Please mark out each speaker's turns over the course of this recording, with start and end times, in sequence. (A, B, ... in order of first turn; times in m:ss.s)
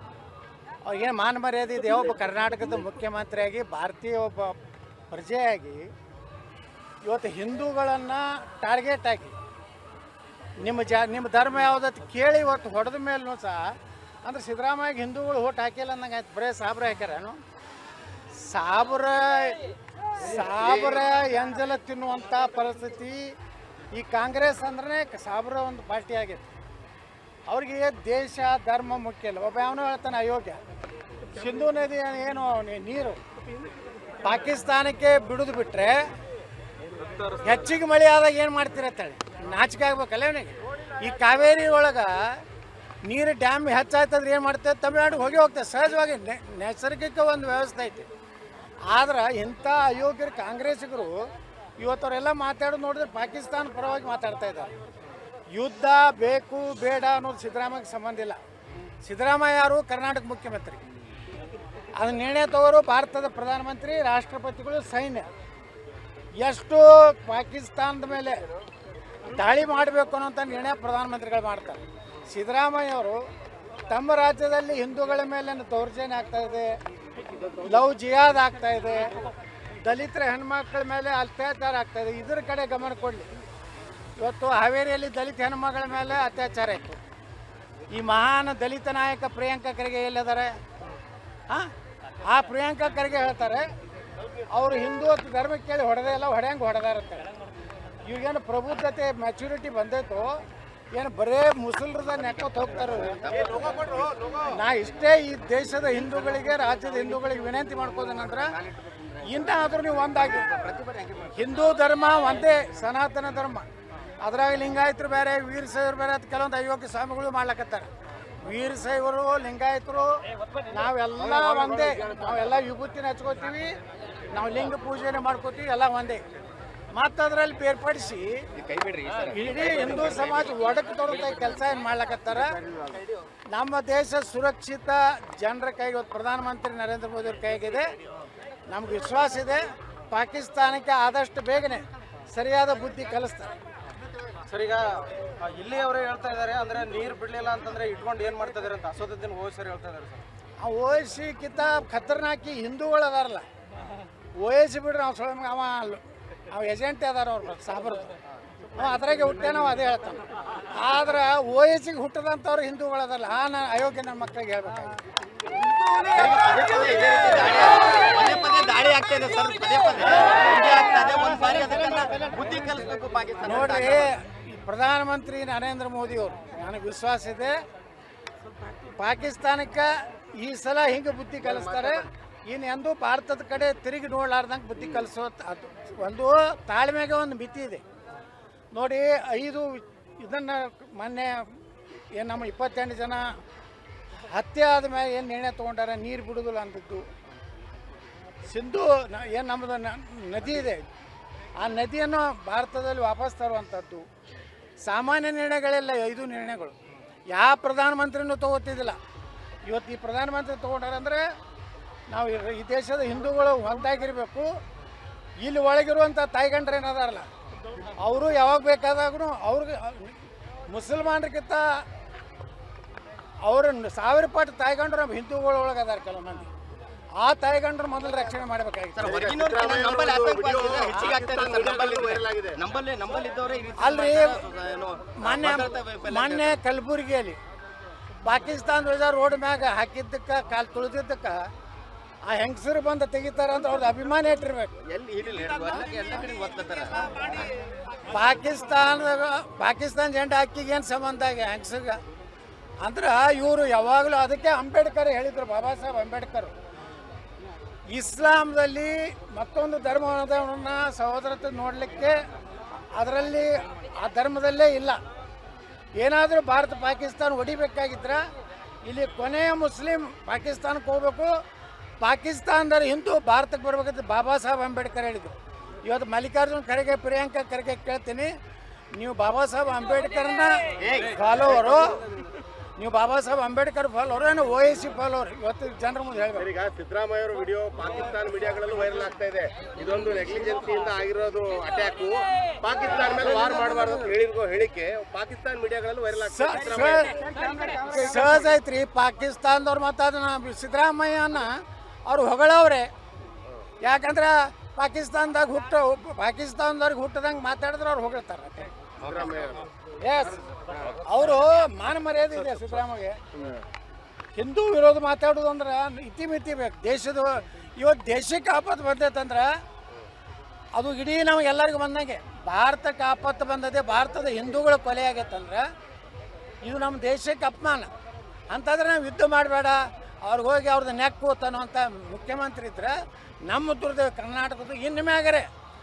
0:00.8-0:04.6 A
0:05.1-0:05.9 A
0:07.0-0:09.4 A
0:10.6-0:13.6 A
0:14.2-0:17.4 A
0:18.4-0:19.6 A
0:20.2-0:23.3 A
0:23.9-0:26.5 A
0:27.5-0:30.6 A
0:31.4-0:33.2 A
0:34.2-0:36.0 A
0:37.4-0:42.4 A
0:43.1-0:48.1 A
0:48.9-0:51.2 A
0:51.8-0:54.7 A
0:55.5-0:58.4 A
0:59.0-1:00.8 A
1:02.0-1:05.3 A
1:06.4-1:08.4 A
1:09.3-1:13.2 A
1:13.9-1:16.7 A
1:17.6-1:19.1 A
1:19.8-1:23.3 A
1:24.2-1:27.0 A
1:27.9-1:30.6 A
1:32.3-1:33.7 A
1:34.5-1:37.3 A
1:38.0-1:40.4 A
1:40.9-1:43.3 A
1:43.0-1:44.1 B
1:44.4-1:48.6 A
1:49.2-1:50.5 A
1:50.4-1:51.5 B
1:51.4-1:53.7 A
1:54.2-1:57.9 A
1:58.4-2:00.1 A
2:00.7-2:03.7 A
2:04.3-2:06.2 A
2:06.9-2:08.4 A
2:08.6-2:10.5 B
2:09.3-2:12.6 A
2:13.5-2:17.9 A
2:18.7-2:23.5 A
2:24.5-2:30.2 C
2:30.6-2:33.4 A
2:34.4-2:38.2 A
2:38.8-2:45.0 A
2:46.0-2:54.1 B
2:53.4-2:57.6 A
2:59.0-3:07.8 A
3:08.7-3:11.5 A
3:12.2-3:13.3 A
3:14.3-3:17.1 A
3:18.5-3:20.8 A
3:21.6-3:24.0 A
3:24.8-3:26.8 A
3:27.3-3:29.0 A
3:29.7-3:31.2 A
3:32.1-3:34.5 A
3:35.4-3:37.3 A
3:38.0-3:41.6 A
3:43.4-3:46.5 A
3:47.2-3:49.2 A
3:49.0-3:56.6 B
3:49.1-3:52.6 D
3:53.8-3:54.4 A
3:55.2-3:57.4 A
3:58.2-4:01.5 A
4:02.3-4:04.8 A
4:04.8-4:07.5 B
4:08.1-4:12.0 A
4:12.8-4:16.5 A
4:17.9-4:22.2 A
4:23.0-4:25.0 A
4:26.0-4:28.2 A
4:28.8-4:31.3 A
4:32.0-4:38.3 A
4:38.9-4:42.0 A
4:40.8-4:41.2 B
4:42.8-4:46.5 A
4:46.4-4:57.2 D
4:56.2-5:01.5 A
4:57.3-4:57.7 C
5:02.1-5:02.9 A
5:03.8-5:08.7 A
5:09.0-5:09.6 B
5:09.0-5:09.7 D
5:10.0-5:13.2 A
5:14.4-5:19.5 A
5:20.8-5:25.7 A
5:26.6-5:27.9 A
5:28.5-5:33.0 A
5:33.5-5:35.5 A